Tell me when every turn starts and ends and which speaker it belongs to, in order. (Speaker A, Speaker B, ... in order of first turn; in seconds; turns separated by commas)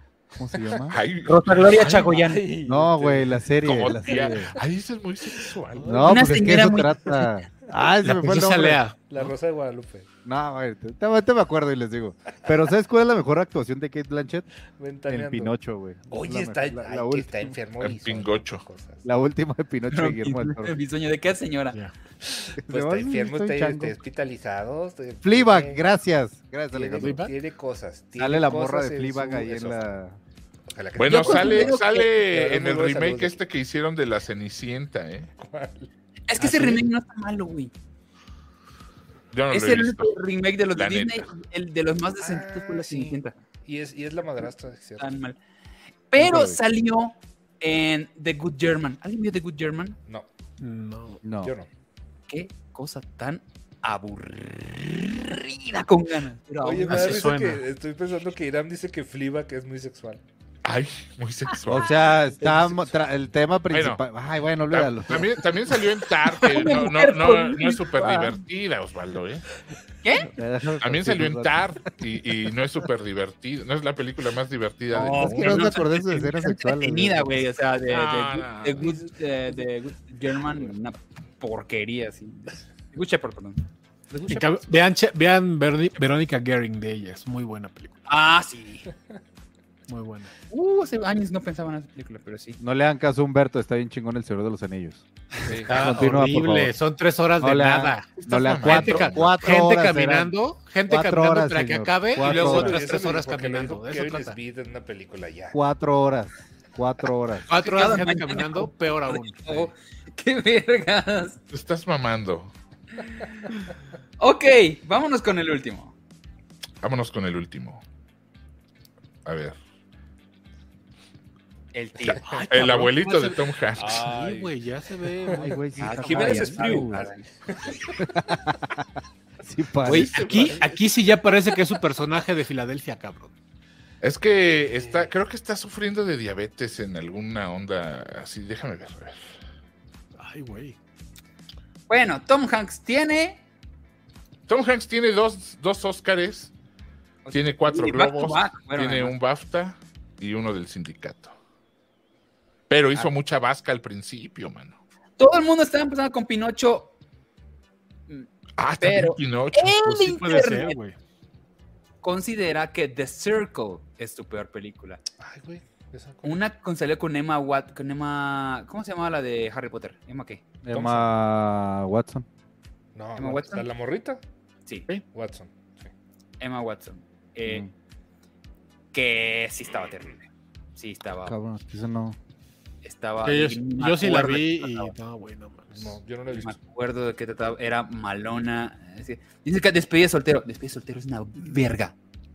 Speaker A: 0.3-1.0, Speaker B: 0.9-2.1, Speaker C: 1.2-2.4, Speaker D: 2.0-4.6, Speaker A: 2.6-4.6, Speaker B: 3.6-6.0, Speaker D: 5.3-6.2, Speaker A: 5.8-8.8, Speaker C: 6.0-7.0, Speaker E: 8.0-9.0, Speaker D: 9.1-10.1, Speaker A: 10.2-14.5, Speaker D: 14.8-15.5, Speaker A: 15.1-17.6, Speaker D: 16.1-19.0, Speaker B: 17.8-18.6, Speaker A: 19.0-20.8, Speaker C: 19.9-21.8, Speaker D: 22.2-25.8, Speaker A: 22.6-24.0, Speaker A: 25.2-27.2, Speaker D: 26.7-29.9, Speaker E: 26.9-27.3, Speaker A: 28.2-30.2, Speaker D: 30.7-33.4, Speaker B: 31.0-35.3, Speaker C: 31.0-32.1, Speaker D: 35.4-35.9, Speaker C: 36.3-37.7, Speaker E: 36.4-36.8, Speaker B: 39.3-40.1, Speaker C: 39.5-43.3, Speaker B: 40.7-41.3, Speaker D: 42.2-45.1, Speaker C: 45.0-45.4, Speaker C: 46.1-50.0, Speaker A: 46.2-46.6, Speaker E: 50.6-51.2, Speaker A: 51.2-51.5, Speaker D: 51.4-51.7, Speaker C: 52.3-57.3, Speaker D: 56.6-60.2, Speaker E: 56.9-57.6, Speaker B: 60.6-62.0, Speaker A: 61.6-65.4, Speaker D: 62.4-62.9, Speaker B: 63.7-64.0, Speaker B: 64.7-69.4, Speaker C: 66.3-68.3, Speaker C: 70.0-70.3, Speaker A: 70.3-71.6, Speaker B: 70.8-75.7, Speaker A: 74.9-77.4, Speaker C: 75.0-83.6, Speaker B: 77.9-79.0, Speaker E: 84.2-88.1, Speaker C: 88.1-88.9, Speaker E: 89.9-90.3, Speaker C: 90.5-92.6, Speaker A: 92.6-95.0, Speaker D: 95.4-96.0, Speaker E: 95.6-104.4, Speaker A: 95.7-96.7, Speaker A: 97.4-100.3, Speaker B: 98.2-99.5, Speaker A: 100.9-102.8, Speaker D: 102.2-105.6, Speaker A: 105.5-107.5, Speaker E: 107.5-109.7, Speaker C: 107.5-111.4, Speaker B: 111.5-112.5, Speaker C: 113.0-113.5, Speaker C: 114.2-115.9, Speaker B: 116.8-117.8, Speaker B: 119.2-119.6, Speaker C: 121.7-122.9, Speaker B: 122.1-124.0, Speaker E: 122.2-125.6, Speaker D: 123.8-124.5, Speaker D: 125.2-128.0, Speaker A: 125.3-127.1, Speaker C: 125.8-127.2, Speaker A: 128.0-128.8, Speaker A: 129.4-130.2, Speaker E: 129.8-133.3, Speaker B: 129.9-130.7, Speaker B: 134.0-139.2, Speaker D: 134.8-135.1, Speaker E: 140.2-140.8, Speaker C: 141.9-143.4, Speaker B: 144.5-146.5, Speaker C: 147.2-149.2, Speaker B: 147.3-151.3, Speaker B: 152.7-154.8, Speaker C: 155.2-156.9, Speaker B: 158.6-159.8, Speaker C: 158.8-160.8, Speaker E: 159.8-160.9, Speaker C: 162.0-165.0, Speaker D: 165.2-166.4, Speaker C: 166.2-170.4, Speaker A: 170.6-172.2, Speaker D: 170.7-171.1, Speaker D: 172.9-174.2, Speaker C: 173.2-173.7, Speaker D: 175.1-175.9, Speaker C: 176.4-177.7, Speaker A: 177.4-177.7, Speaker C: 178.9-180.2, Speaker C: 180.8-181.3, Speaker A: 181.2-182.2, Speaker C: 182.8-184.9, Speaker E: 183.2-186.0, Speaker D: 185.7-186.6, Speaker C: 186.3-191.9